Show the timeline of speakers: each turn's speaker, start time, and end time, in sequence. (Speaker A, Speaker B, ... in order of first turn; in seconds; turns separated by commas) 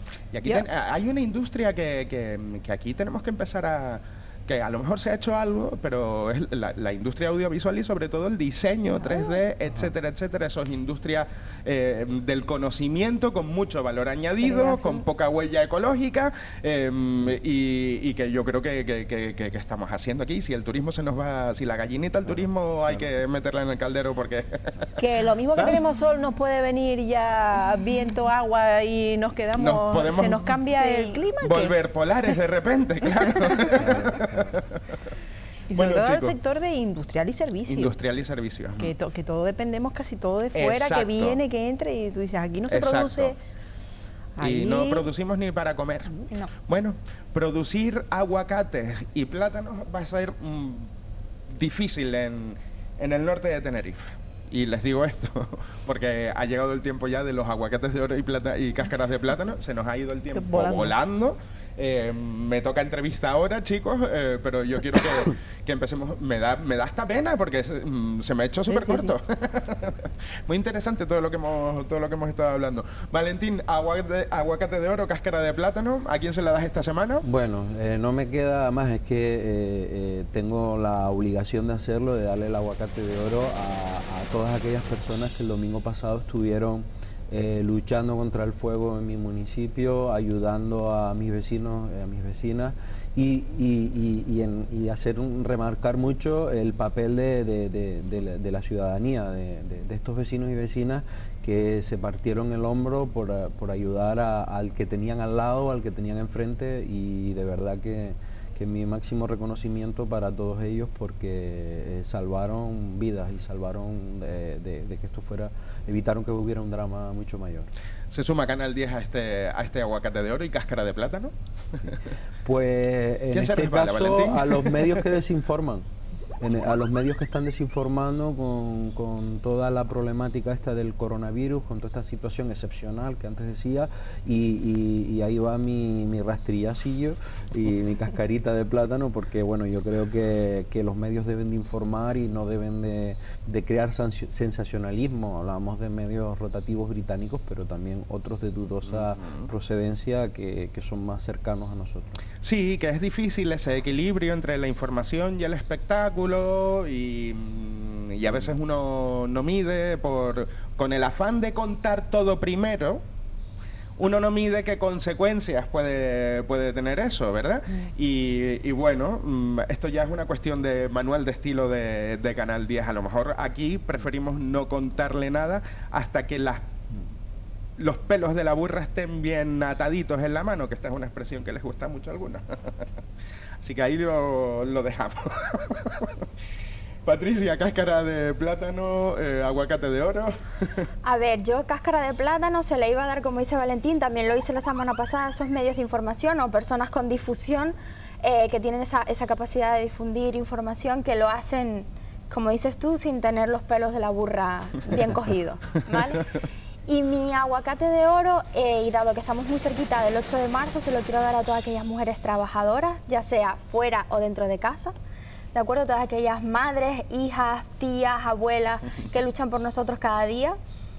Speaker A: 0.3-24.8, Speaker B: 8.9-9.4, Speaker B: 14.4-15.0, Speaker B: 25.0-31.8, Speaker A: 29.6-30.5, Speaker C: 30.6-31.2, Speaker A: 31.4-34.8, Speaker B: 33.5-33.9, Speaker B: 35.7-37.9, Speaker A: 35.7-36.4, Speaker A: 37.7-38.9, Speaker B: 38.8-43.4, Speaker A: 40.5-41.4, Speaker A: 42.7-43.3, Speaker B: 44.4-45.1, Speaker A: 44.4-50.9, Speaker A: 51.5-77.2, Speaker B: 60.3-61.0, Speaker B: 68.7-69.1, Speaker D: 77.2-117.7, Speaker A: 118.1-122.0, Speaker D: 122.4-125.9, Speaker A: 123.3-125.0, Speaker D: 126.4-152.2, Speaker A: 148.9-149.5, Speaker A: 152.4-163.0, Speaker A: 164.0-176.7, Speaker A: 177.8-182.9, Speaker A: 183.6-186.2, Speaker A: 187.1-190.9, Speaker C: 191.0-206.3, Speaker C: 206.9-214.9, Speaker C: 215.5-220.6